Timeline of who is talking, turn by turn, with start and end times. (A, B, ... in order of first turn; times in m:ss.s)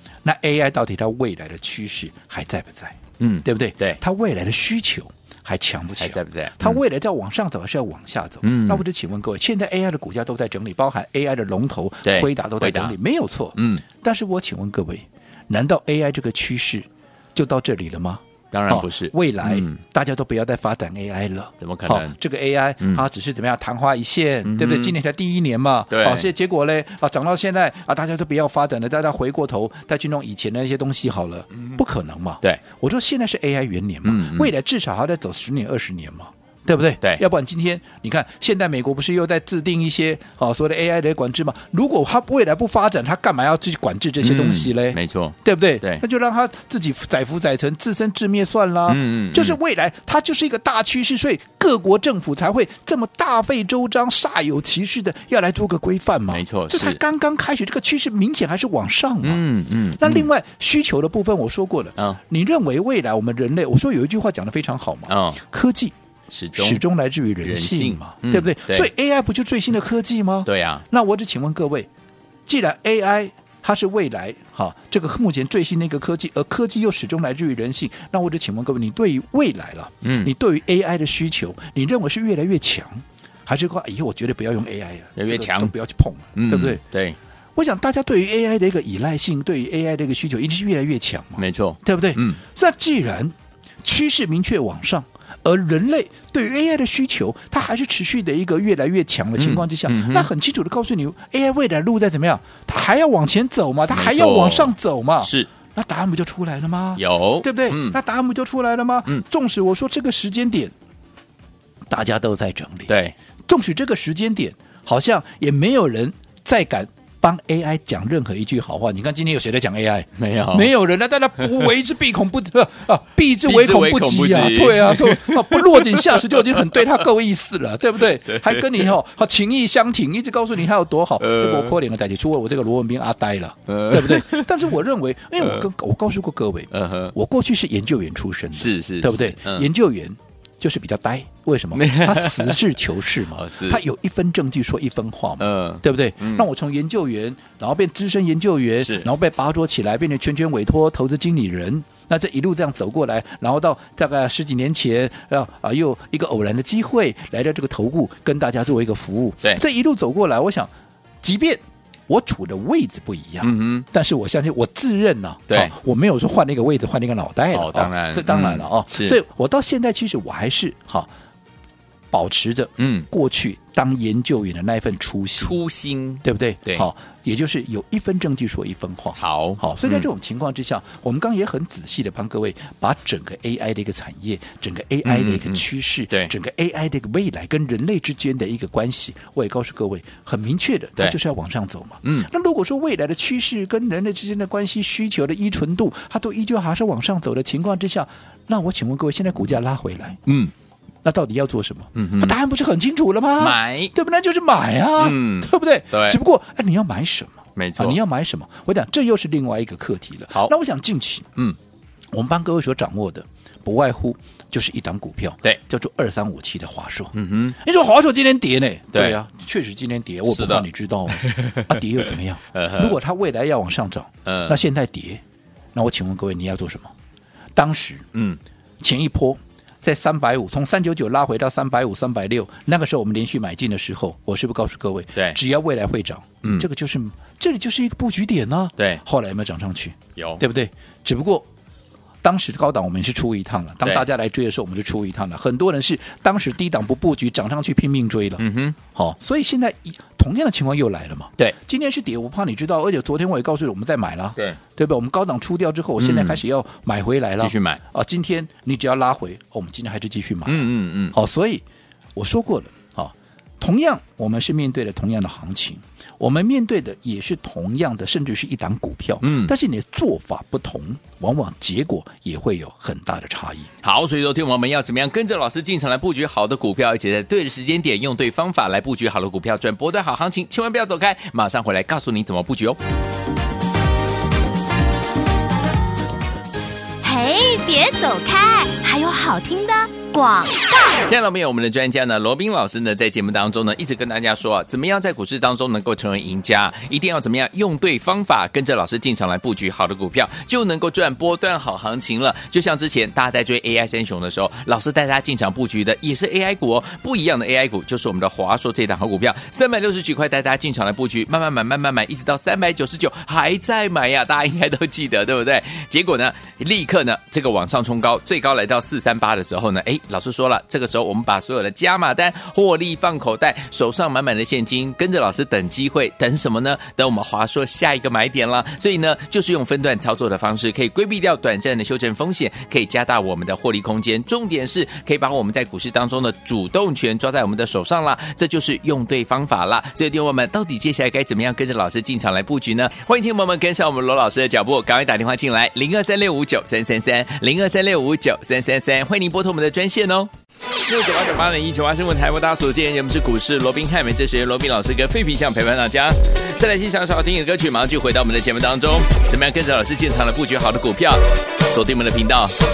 0:00.2-0:59.4 A
0:03.2-0:04.0 B
0:06.0-0:06.8 B
0:08.4-0:08.8 B
0:12.0-0:12.9 B
0:13.5-0:13.8 B
0:18.5-0:19.8 B
0:21.6-0:22.2 B
0:24.4-0:25.0 B
0:25.9-0:26.3 B
0:34.0-0:34.5 B
0:44.2-0:46.0 B
0:48.8-0:49.6 B
0:56.3-0:57.0 B
0:59.2-1:00.3 B
1:00.0-1:05.9 A
1:05.1-1:05.4 B
1:06.3-1:06.8 B
1:06.5-1:11.9 A
1:07.4-1:08.9 B
1:10.4-1:10.8 B
1:12.4-1:26.8 A
1:20.0-1:20.3 B
1:25.2-1:25.7 B
1:26.3-1:27.2 B
1:27.6-1:50.7 A
1:31.4-1:32.4 B
1:39.4-1:40.3 B
1:43.9-1:45.5 B
1:47.0-1:48.0 B
1:51.9-1:52.9 A
1:52.9-1:53.1 B
1:53.5-2:40.7 A
2:00.2-2:00.7 B
2:03.4-2:06.9 B
2:08.3-2:08.9 B
2:11.2-2:11.8 B
2:13.7-2:14.7 B
2:16.7-2:17.1 B
2:18.5-2:19.7 B
2:21.7-2:22.7 B
2:23.3-2:23.8 B
2:25.4-2:26.5 B
2:28.8-2:29.1 B
2:41.2-2:51.1 A
2:43.4-2:43.9 B
2:47.5-2:49.2 B
2:52.1-2:55.6 A
2:52.8-2:53.1 B
2:55.4-2:56.9 B
2:56.2-3:20.2 A
2:59.2-3:00.1 B
3:05.0-3:06.3 B
3:12.0-3:12.3 B
3:20.3-3:20.5 B
3:21.0-3:31.3 A
3:21.9-3:22.4 B
3:23.4-3:23.9 B
3:25.0-3:26.2 B
3:27.6-3:28.0 B
3:32.1-3:45.2 A
3:37.1-3:37.6 B
3:38.9-3:39.2 B
3:40.2-3:41.6 B
3:42.5-3:43.0 B
3:44.2-3:44.6 B
3:45.7-3:46.9 A
3:47.5-3:48.0 A
3:48.1-3:48.4 B
3:48.8-4:01.5 A
3:58.8-3:59.0 B
4:00.2-4:00.4 B
4:02.2-4:21.6 A
4:08.4-4:08.8 B
4:16.0-4:16.4 B
4:17.4-4:17.8 B
4:20.4-4:21.2 B
4:22.2-4:33.7 A
4:29.2-4:29.5 B
4:33.8-4:42.8 B
4:47.0-4:51.0 C
4:51.0-5:50.3 B
5:50.8-6:02.5 B